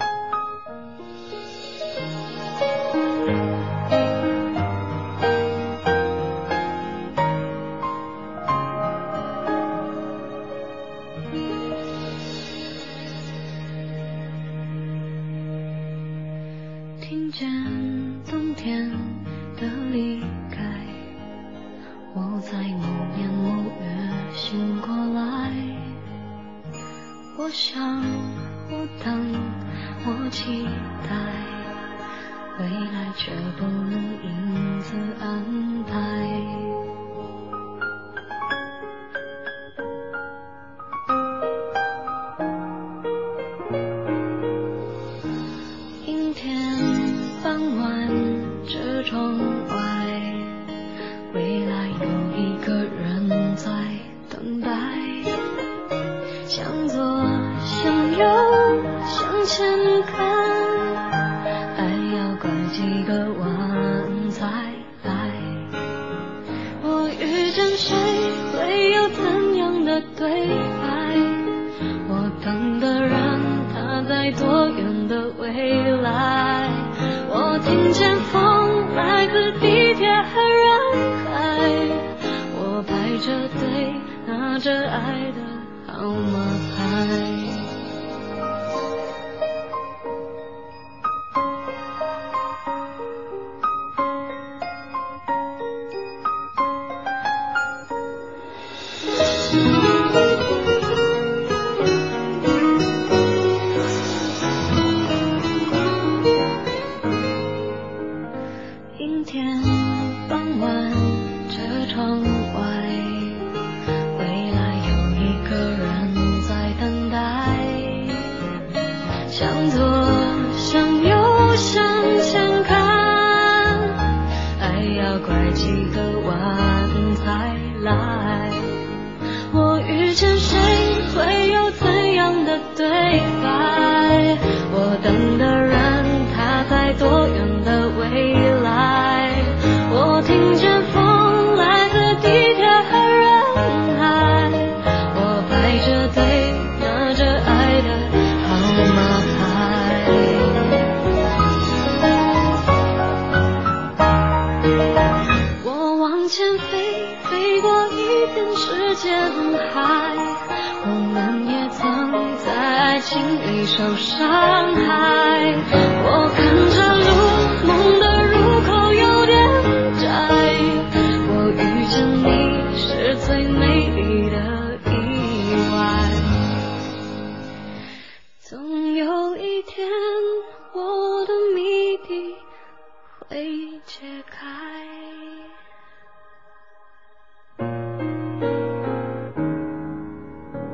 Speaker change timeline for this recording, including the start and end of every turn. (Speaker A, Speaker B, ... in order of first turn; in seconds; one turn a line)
Speaker A: 17.0-21.1
Speaker A: 22.1-26.0
Speaker A: 27.3-31.7
Speaker A: 32.5-36.8
Speaker A: 46.0-50.6
Speaker A: 51.3-55.4
Speaker A: 56.5-61.0
Speaker A: 61.7-65.7
Speaker A: 66.8-87.7
Speaker A: 108.9-113.5
Speaker A: 114.1-118.2
Speaker A: 119.3-124.0
Speaker A: 124.6-128.7
Speaker A: 129.5-150.9
Speaker A: 155.6-176.3
Speaker A: 178.4-182.4
Speaker A: 183.2-185.5